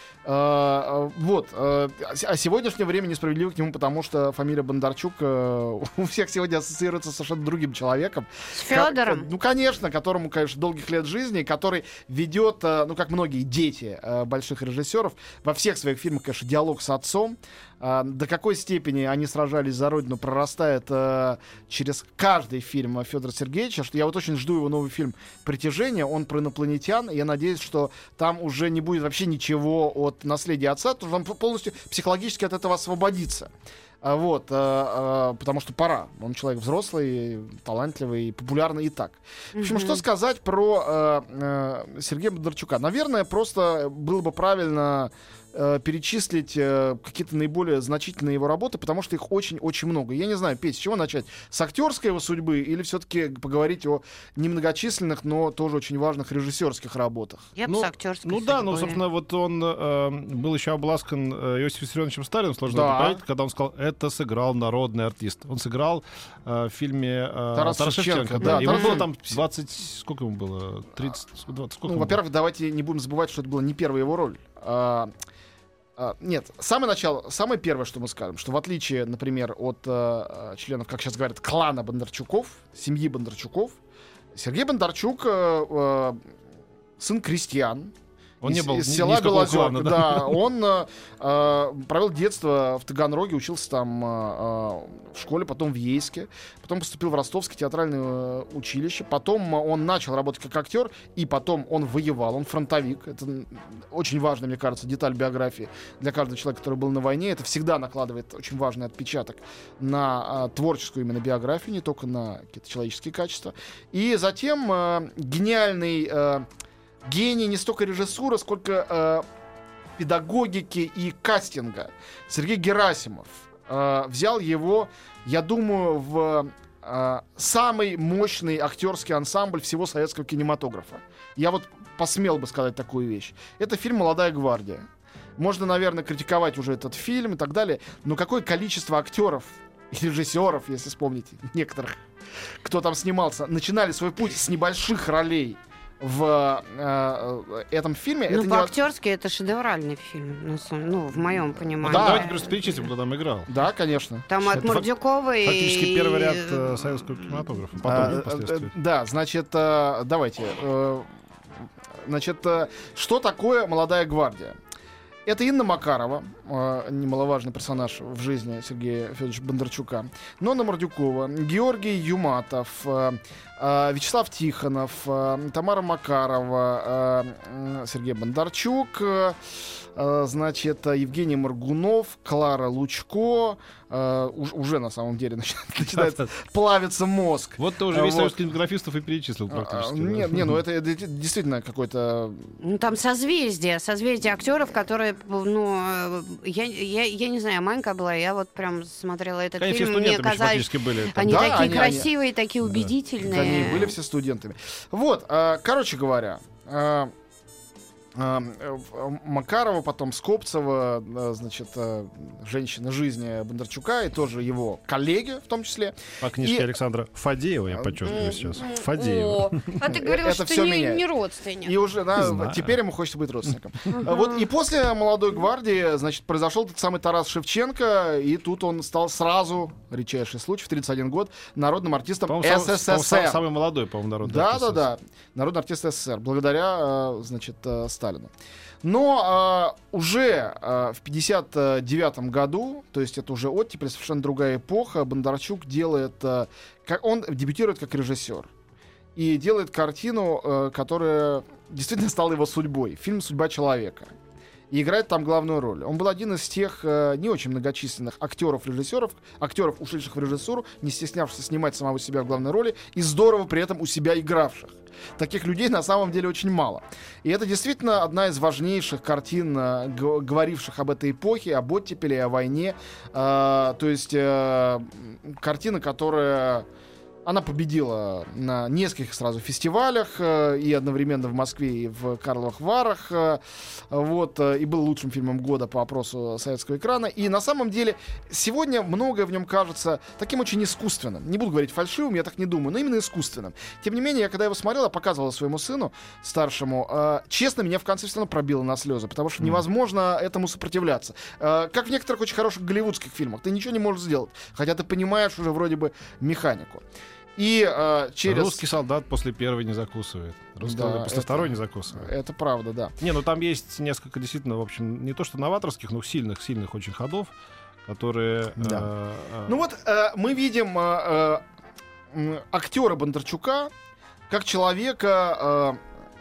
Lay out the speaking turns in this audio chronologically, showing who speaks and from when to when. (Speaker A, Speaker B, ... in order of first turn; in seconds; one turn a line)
Speaker A: 0.2-33.5
Speaker B: 8.5-9.3
Speaker A: 34.0-57.5
Speaker B: 39.6-40.0
Speaker B: 57.6-59.0
Speaker C: 57.7-72.2
Speaker A: 62.7-63.2
Speaker A: 67.5-69.4
Speaker B: 68.4-69.0
Speaker A: 71.9-75.1
Speaker A: 76.0-83.8
Speaker A: 84.3-86.3
Speaker A: 87.0-87.9
Speaker C: 88.4-90.4
Speaker A: 88.4-116.5
Speaker A: 117.1-119.2
Speaker A: 120.0-134.8
Speaker A: 135.4-142.0
Speaker A: 142.6-148.7
Speaker B: 148.3-152.4
Speaker A: 151.8-152.3
Speaker C: 151.8-153.5
Speaker A: 153.5-154.3
Speaker B: 154.3-157.1
Speaker C: 154.4-154.9
Speaker C: 155.4-158.7
Speaker A: 157.8-161.1
Speaker A: 162.0-164.6
Speaker A: 165.3-179.4
Speaker A: 179.9-188.4
Speaker C: 185.9-186.3
Speaker C: 187.6-190.6
Speaker A: 189.5-192.5
Speaker B: 192.6-203.9
Speaker C: 199.6-201.9
Speaker A: 201.2-202.1
Speaker C: 202.7-202.9
Speaker A: 203.2-207.1
Speaker A: 208.2-216.7
Speaker C: 216.2-219.8
Speaker A: 217.8-218.6
Speaker B: 218.1-221.7
Speaker A: 219.8-221.0
Speaker A: 221.6-233.4
Speaker C: 222.2-222.8
Speaker C: 232.3-234.9
Speaker A: 234.2-238.3
Speaker A: 238.8-248.5
Speaker A: 249.2-254.1
Speaker A: 254.7-276.7
Speaker A: 277.2-306.9
Speaker A: 307.4-308.6
Speaker C: 308.2-312.1
Speaker A: 310.6-313.0
Speaker C: 313.0-317.3
Speaker C: 317.9-319.6
Speaker A: 318.6-318.9
Speaker A: 319.5-321.4
Speaker A: 322.1-323.7
Speaker A: 324.3-325.8